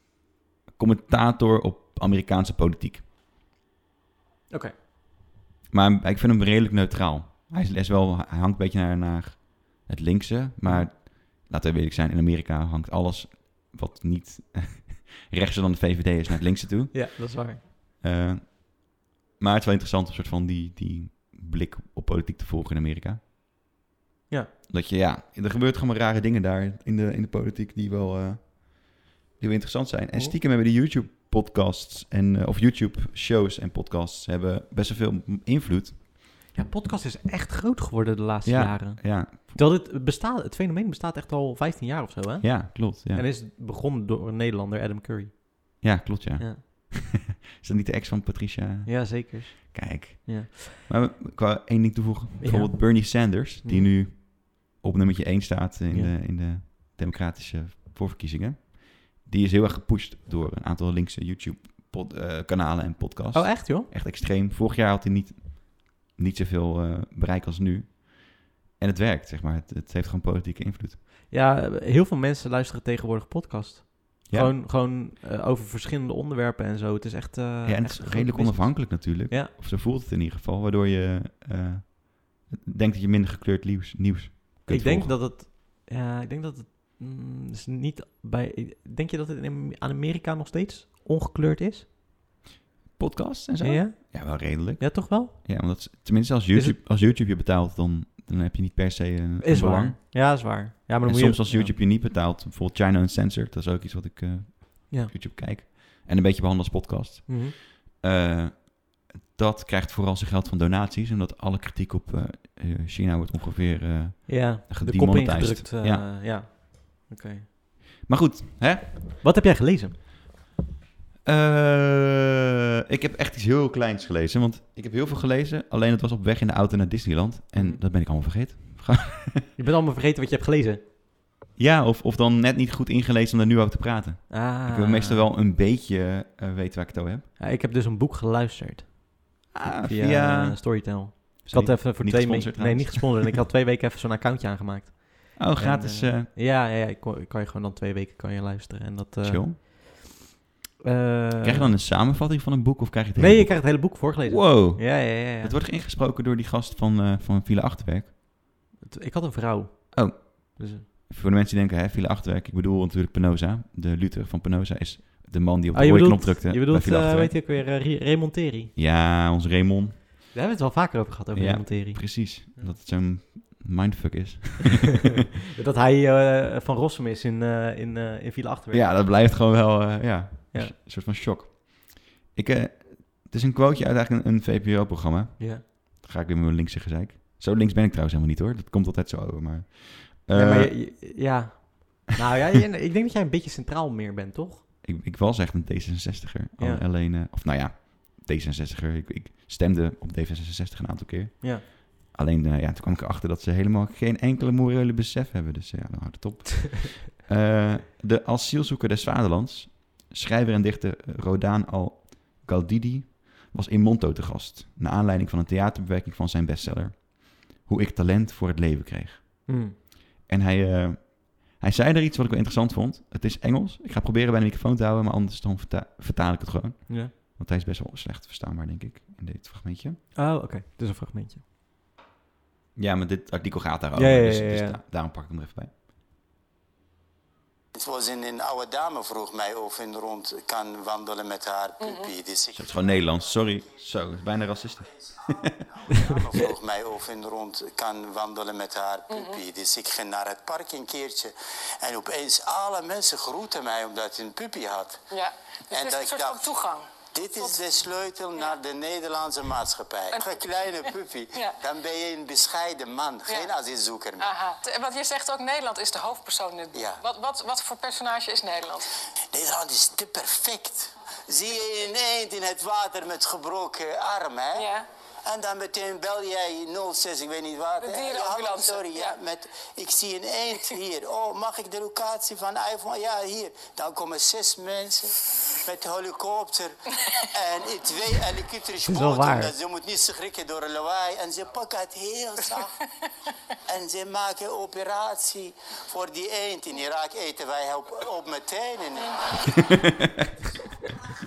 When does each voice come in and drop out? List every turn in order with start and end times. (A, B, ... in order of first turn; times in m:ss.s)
0:00.8-0:03.0 A
0:05.7-0:17.1 A
0:16.9-0:17.6 B
0:18.0-0:23.2 A
0:24.7-0:36.0 A
0:36.5-0:45.8 B
0:38.4-0:39.6 A
0:42.4-0:43.2 A
0:45.8-1:11.0 A
0:48.8-0:50.6 B
0:52.4-0:53.9 B
1:03.3-1:03.9 B
1:11.3-1:19.5 B
1:14.3-1:14.5 A
1:17.6-1:25.2 A
1:24.7-1:31.9 B
1:33.0-1:40.0 A
1:33.6-1:35.8 B
1:39.4-1:41.7 B
1:41.0-1:56.0 A
1:47.3-1:47.5 B
1:54.3-1:57.4 B
1:58.0-1:59.1 A
1:59.2-2:00.0 B
2:01.2-2:09.4 A
2:07.5-2:07.8 B
2:09.6-2:10.8 B
2:11.6-2:17.2 A
2:14.3-2:15.2 B
2:17.4-2:19.1 B
2:19.5-2:20.6 A
2:19.8-2:30.0 B
2:21.4-2:23.4 A
2:25.4-2:26.3 A
2:29.2-2:29.6 A
2:30.8-2:31.7 B
2:31.4-2:38.1 A
2:33.2-2:35.6 B
2:38.8-2:40.8 B
2:39.9-2:47.4 A
2:45.7-2:48.7 B
2:48.7-2:50.0 A
2:50.3-2:52.7 B
2:51.3-2:55.0 A
2:55.5-2:58.9 B
2:58.7-3:10.8 A
3:10.3-3:14.6 B
3:14.8-3:39.6 A
3:16.6-3:16.8 B
3:39.5-3:39.7 B
3:40.3-3:50.0 A
3:50.2-3:51.4 B
3:52.8-3:55.7 A
3:54.0-3:54.8 B
3:57.7-4:02.9 C
4:01.8-4:02.1 D
4:02.5-4:05.6 A
4:05.8-4:15.0 C
4:09.1-4:09.4 D
4:15.1-4:17.6 D
4:15.7-4:16.5 C
4:17.1-4:24.3 C
4:24.2-4:28.9 D
4:26.7-4:27.0 C
4:29.3-4:34.7 C
4:34.6-4:34.8 D
4:35.2-4:52.8 C
4:37.8-4:39.1 D
4:48.9-4:49.5 B
4:53.7-4:59.8 C
4:59.4-5:00.3 A